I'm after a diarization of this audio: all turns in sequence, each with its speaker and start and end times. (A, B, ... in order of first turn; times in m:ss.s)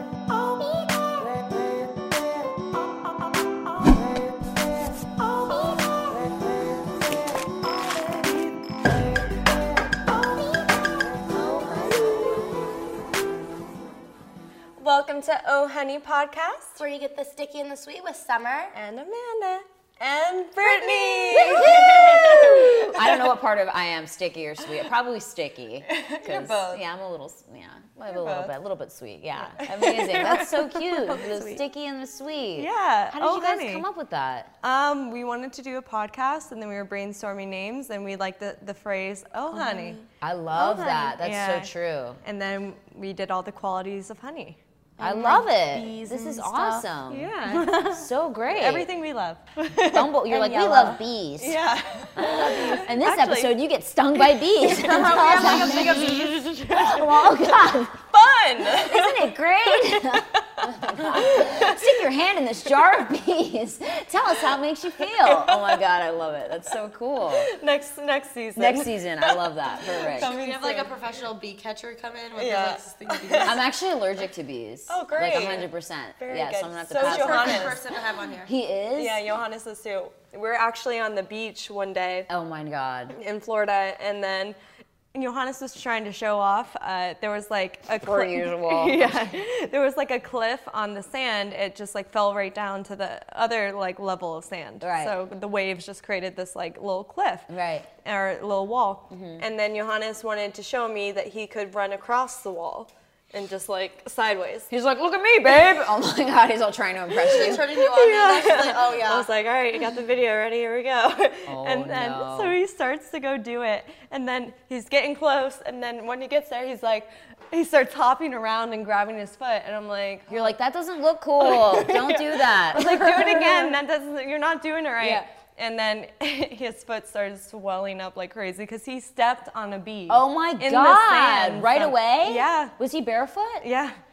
0:00.3-0:01.6 A
0:03.5-0:04.0 A
0:05.0-0:06.4 A
0:07.8-0:08.8 A
0:10.0-0:12.5 A
0:11.2-0:12.6 B
0:14.8-0:16.8 A
0:16.8-0:18.8 B
0:18.8-0:23.3 A
0:20.6-0:21.7 B
0:21.3-0:34.5 C
0:25.9-0:26.8 A
0:28.1-0:28.5 A
0:29.5-0:31.6 A
0:32.6-0:33.8 A
0:34.6-0:40.0 A
0:39.5-0:40.0 B
0:40.2-0:42.2 C
0:40.6-0:41.7 A
0:42.2-0:44.6 A
0:45.0-0:46.9 B
0:45.0-0:48.9 C
0:47.1-0:47.9 A
0:47.5-0:48.0 B
0:48.5-0:50.1 A
0:49.8-0:51.6 C
0:50.3-0:51.0 B
0:51.4-0:53.6 A
0:52.1-0:58.0 C
0:52.2-0:52.9 B
0:54.1-0:57.3 A
0:54.8-0:56.6 B
0:58.1-1:02.0 A
0:58.6-1:07.5 C
1:05.1-1:05.8 A
1:07.4-1:11.0 A
1:08.6-1:10.3 C
1:10.2-1:13.6 B
1:12.4-1:13.6 A
1:13.4-1:17.8 C
1:14.9-1:18.4 A
1:17.0-1:18.5 B
1:18.4-1:19.2 C
1:19.0-1:22.3 A
1:22.3-1:23.2 C
1:23.1-1:24.6 A
1:25.1-1:44.7 A
1:28.0-1:29.4 C
1:34.8-1:35.2 C
1:37.5-1:37.9 C
1:39.1-1:39.4 C
1:44.7-1:47.6 C
1:47.2-1:49.3 B
1:47.4-2:00.5 A
1:51.5-1:52.6 C
2:00.3-2:03.4 C
2:01.4-2:12.7 A
2:05.0-2:05.2 C
2:10.1-2:13.6 C
2:13.6-2:14.0 A